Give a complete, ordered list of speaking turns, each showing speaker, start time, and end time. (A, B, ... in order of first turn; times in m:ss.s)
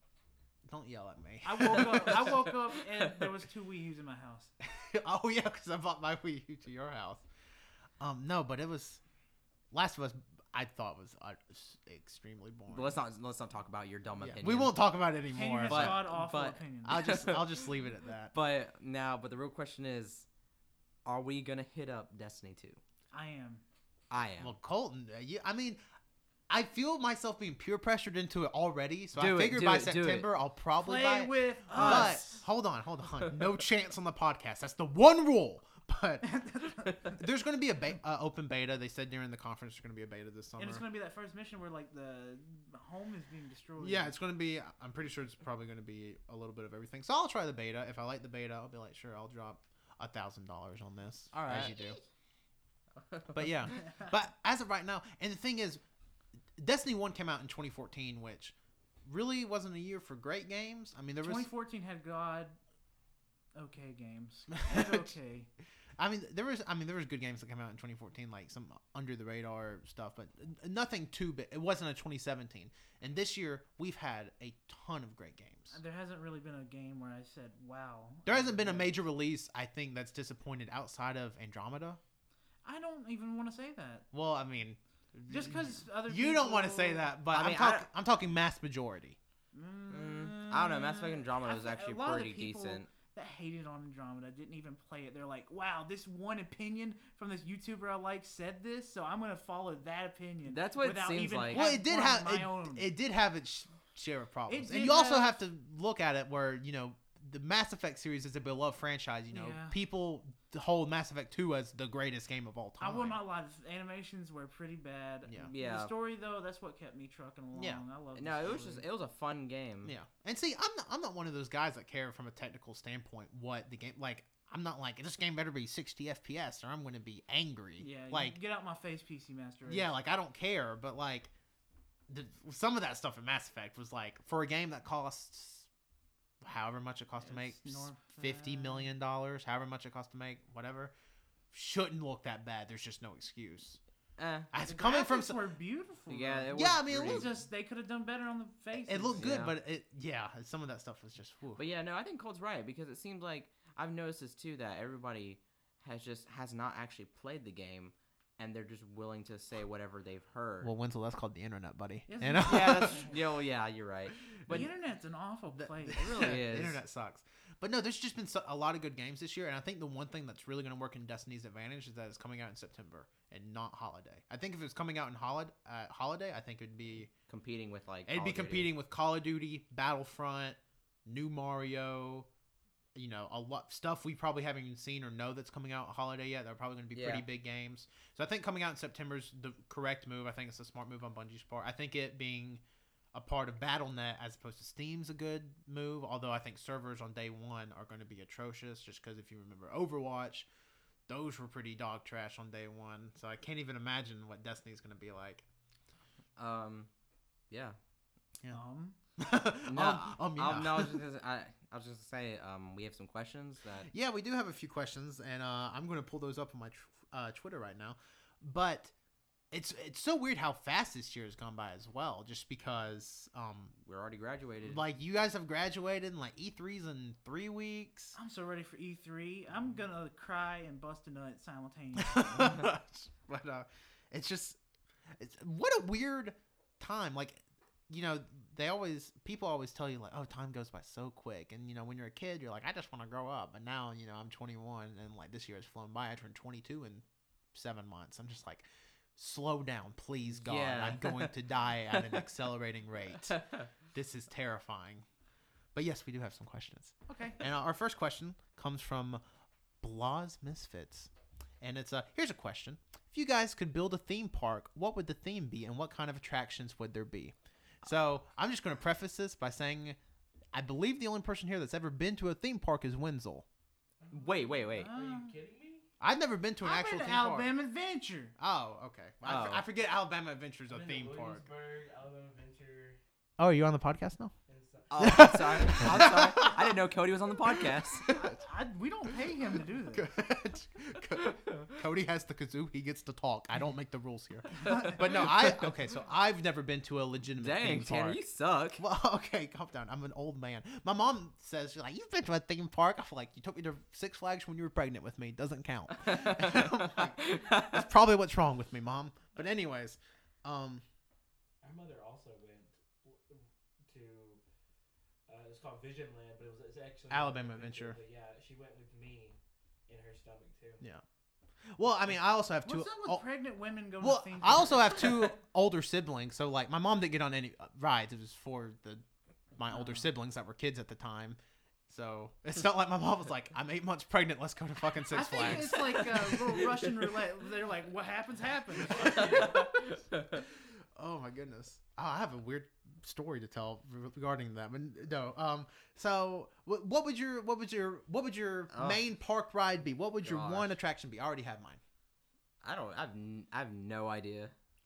0:00.6-0:02.4 A
0:01.4-0:04.5 B
0:04.6-0:07.2 A
0:08.0-0:09.0 A
0:09.7-0:13.0 A
0:12.7-0:14.7 C
0:14.2-0:16.1 A
0:15.3-0:17.1 B
0:15.6-0:17.7 C
0:16.9-0:18.3 A
0:18.3-0:20.2 C
0:21.0-0:22.8 C
0:23.1-0:23.6 B
0:24.1-0:24.5 C
0:24.4-0:25.8 A
0:26.5-0:36.2 A
0:29.2-0:30.3 C
0:30.8-0:32.4 B
0:31.7-0:32.3 C
0:36.2-0:37.2 B
0:37.1-0:40.8 A
0:40.6-0:44.2 B
0:43.8-0:52.0 A
0:51.3-0:52.0 C
0:53.0-0:53.6 C
0:53.3-0:55.8 A
0:56.6-1:01.5 A
1:01.2-1:02.6 B
1:03.5-1:05.5 B
1:04.5-1:05.1 A
1:06.0-1:15.8 A
1:15.7-1:18.9 B
1:18.2-1:22.0 A
1:22.6-1:24.0 B
1:24.1-1:29.2 A
1:25.3-1:27.2 B
1:27.3-1:27.9 C
1:29.5-1:42.9 B
1:29.9-1:32.9 C
1:40.4-1:41.6 C
1:41.5-1:53.2 A
1:44.5-1:45.4 B
1:49.3-1:49.8 B
1:52.8-1:58.8 B
1:55.4-1:55.9 C
1:57.5-1:57.8 A
1:58.2-1:59.9 C
1:59.8-2:08.4 A
2:07.8-2:09.9 B
2:09.6-2:11.3 A
2:12.1-2:15.7 A
2:16.4-2:20.9 A
2:17.2-2:18.9 B
2:21.5-2:23.8 A
2:24.2-2:24.5 C
2:24.5-2:25.4 A
2:24.6-2:29.2 B
2:26.1-2:27.3 C
2:26.5-2:27.4 A
2:28.8-2:31.6 A
2:29.2-2:29.5 C
2:31.6-2:40.7 C
2:40.6-2:43.1 A
2:42.1-2:43.1 B
2:42.4-2:44.7 C
2:44.5-2:46.1 B
2:45.6-2:57.1 A
2:45.9-2:46.8 C
2:57.3-2:58.7 C
2:58.1-3:02.3 A
3:02.9-3:12.6 A
3:06.9-3:07.2 C
3:13.1-3:20.5 A
3:21.1-3:25.4 A
3:26.4-3:26.9 C
3:27.5-3:27.8 C
3:28.5-3:29.0 B
3:29.2-3:31.0 A
3:29.6-3:33.9 C
3:33.9-3:38.9 A
3:39.5-3:43.7 A
3:43.8-3:44.8 C
3:44.6-3:48.2 A
3:48.2-3:52.7 B
3:52.0-3:54.6 A
3:55.1-4:08.6 A
4:09.2-4:15.0 A
4:10.4-4:11.4 C
4:11.9-4:12.3 C
4:13.3-4:13.6 C
4:15.7-4:19.2 A
4:17.1-4:17.4 B
4:19.8-4:21.1 A
4:21.6-4:30.0 A
4:30.5-4:33.4 A
4:34.0-4:35.8 D
4:34.1-4:34.9 C
4:34.8-4:35.3 B
4:36.0-4:37.5 A
4:36.6-4:38.3 B
4:38.4-4:41.4 A
4:39.2-4:39.6 C
4:40.7-4:43.0 D
4:43.4-4:44.3 A
4:44.5-4:45.5 D
4:44.9-4:48.1 C
4:45.0-4:46.8 A
4:47.5-4:48.4 A
4:48.1-4:50.1 B
4:49.9-4:58.2 A
4:57.4-4:58.8 C
4:58.8-5:10.8 A
5:06.0-5:07.8 C
5:11.6-5:14.4 D
5:15.3-5:20.8 D
5:17.1-5:18.0 A
5:21.7-5:23.2 A
5:22.6-5:25.2 B
5:24.0-5:29.0 A
5:29.6-5:36.8 A
5:29.7-5:30.0 B
5:35.1-5:39.6 B
5:39.0-5:40.4 C
5:40.9-5:51.8 A
5:48.7-5:49.0 C
5:50.2-5:50.8 C
5:52.6-5:54.5 C